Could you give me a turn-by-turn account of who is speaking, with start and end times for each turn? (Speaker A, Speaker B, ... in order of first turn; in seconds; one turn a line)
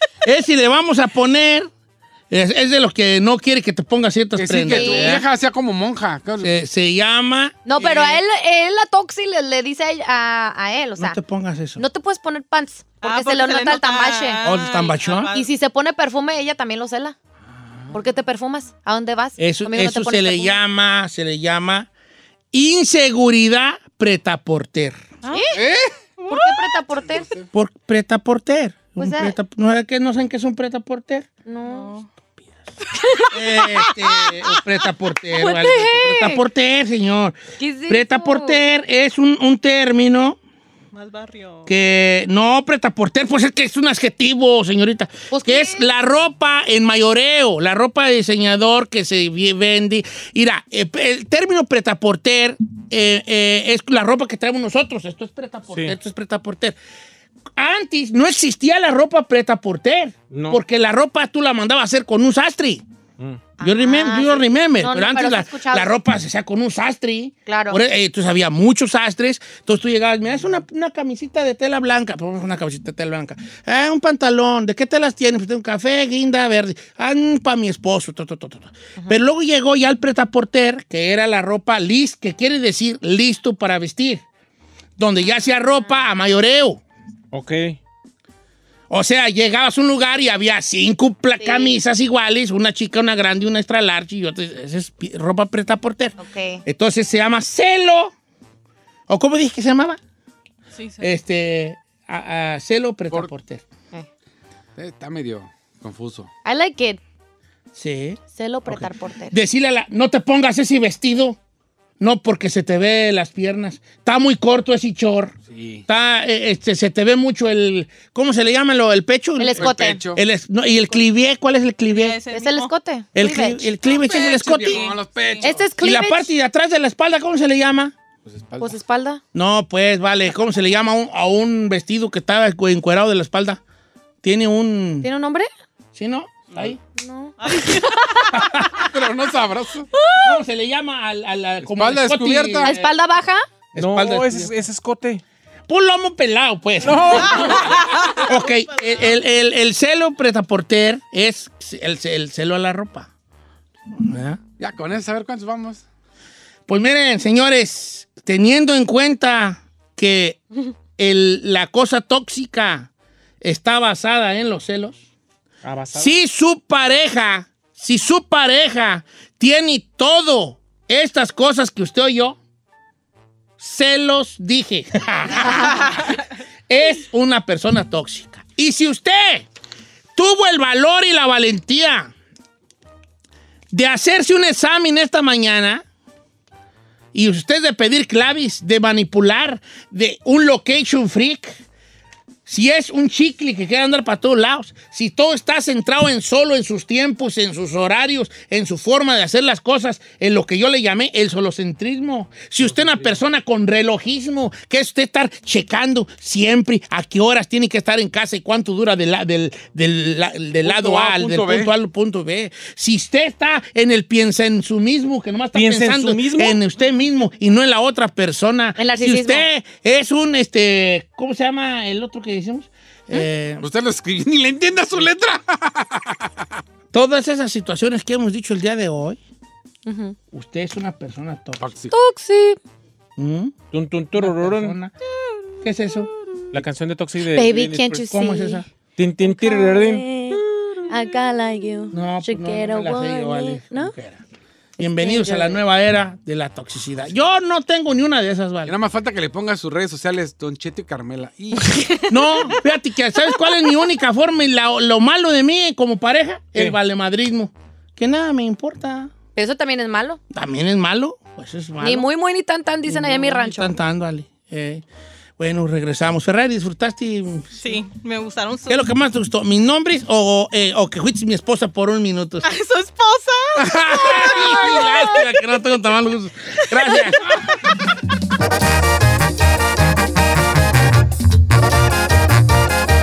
Speaker A: 0.2-1.7
Speaker A: 2.3-5.2
Speaker B: 4.4-6.5
Speaker C: 4.7-5.2
Speaker A: 6.4-7.6
Speaker C: 7.7-11.2
Speaker A: 11.0-11.8
Speaker C: 11.8-14.4
Speaker D: 13.0-15.5
Speaker A: 14.4-15.3
Speaker C: 15.3-17.1
Speaker C: 17.9-20.6
Speaker A: 19.4-21.9
Speaker A: 22.5-25.0
Speaker C: 25.3-25.6
Speaker B: 25.5-26.0
Speaker D: 26.2-26.8
Speaker C: 26.3-27.3
Speaker B: 27.0-27.5
Speaker A: 27.5-31.3
Speaker C: 29.0-29.4
Speaker C: 31.5-31.9
Speaker D: 31.7-32.1
Speaker D: 33.0-34.3
Speaker A: 33.3-40.4
Speaker C: 35.3-36.4
Speaker C: 37.6-38.7
Speaker D: 40.9-41.7
Speaker A: 41.7-56.8
Speaker C: 45.3-45.9
Speaker E: 55.7-56.0
Speaker A: 57.6-62.8
Speaker E: 60.3-60.6
Speaker C: 63.6-65.9
Speaker A: 63.6-84.2
Speaker C: 67.5-67.8
Speaker A: 85.0-86.8
Speaker E: 87.3-87.8
Speaker A: 88.9-98.1
Speaker C: 91.4-91.8
Speaker C: 96.2-96.6
Speaker A: 99.1-100.0
Speaker D: 100.8-101.1
Speaker A: 101.0-103.7
Speaker B: 104.8-106.3
Speaker C: 106.5-107.0
Speaker A: 107.7-111.4
Speaker C: 108.3-109.3
Speaker A: 112.0-115.3
Speaker B: 115.5-115.8
Speaker A: 115.9-122.2
Speaker C: 119.4-120.0
Speaker B: 119.6-120.2
Speaker D: 121.9-122.7
Speaker C: 122.3-123.8
Speaker A: 123.2-124.9
Speaker B: 123.9-125.7
Speaker D: 124.0-125.5
Speaker C: 125.4-126.3
Speaker A: 125.8-128.0
Speaker B: 128.3-128.8
Speaker C: 128.6-129.2
Speaker A: 129.3-133.6
Speaker A: 134.2-135.1
Speaker C: 135.0-135.5
Speaker A: 135.9-136.7
Speaker C: 136.9-138.4
Speaker D: 137.4-138.3
Speaker A: 138.4-138.7
Speaker B: 138.9-139.9
Speaker C: 140.0-140.4
Speaker A: 140.2-142.9
Speaker B: 141.7-142.7
Speaker C: 142.6-143.4
Speaker A: 143.7-144.5
Speaker E: 143.8-145.2
Speaker A: 145.7-147.7
Speaker E: 146.8-147.7
Speaker A: 148.2-153.1
Speaker A: 153.9-154.4
Speaker B: 154.6-155.8
Speaker A: 156.7-160.4
Speaker A: 161.0-162.9
Speaker A: 163.4-165.0
Speaker E: 165.6-166.1
Speaker A: 165.9-172.4
Speaker A: 173.6-176.2
Speaker A: 176.7-179.5
Speaker A: 180.2-182.1
Speaker A: 183.7-185.8
Speaker A: 187.1-191.6
Speaker A: 192.5-223.7
Speaker B: 210.7-211.7
Speaker E: 215.6-216.6
Speaker C: 218.8-219.5
Speaker B: 223.6-226.3
Speaker A: 226.9-229.2
Speaker C: 229.9-230.2
Speaker A: 230.3-231.7
Speaker B: 231.6-231.9
Speaker C: 231.9-232.6
Speaker A: 233.2-233.6
Speaker E: 233.7-234.8
Speaker A: 234.2-234.9
Speaker A: 235.6-236.1
Speaker E: 236.5-238.0
Speaker C: 237.3-238.6
Speaker A: 237.9-238.7
Speaker E: 239.0-240.1
Speaker C: 239.2-243.9
Speaker A: 241.9-244.2
Speaker A: 244.8-248.7
Speaker C: 244.8-245.6
Speaker B: 248.7-251.8
Speaker C: 251.7-252.5
Speaker A: 252.1-259.1
Speaker C: 259.4-260.2
Speaker A: 260.3-262.1
Speaker C: 261.8-263.7
Speaker A: 262.9-264.8
Speaker A: 265.4-267.6
Speaker D: 267.6-268.9
Speaker A: 268.7-272.5
Speaker D: 272.4-275.3
Speaker A: 273.6-277.4
Speaker D: 276.8-277.5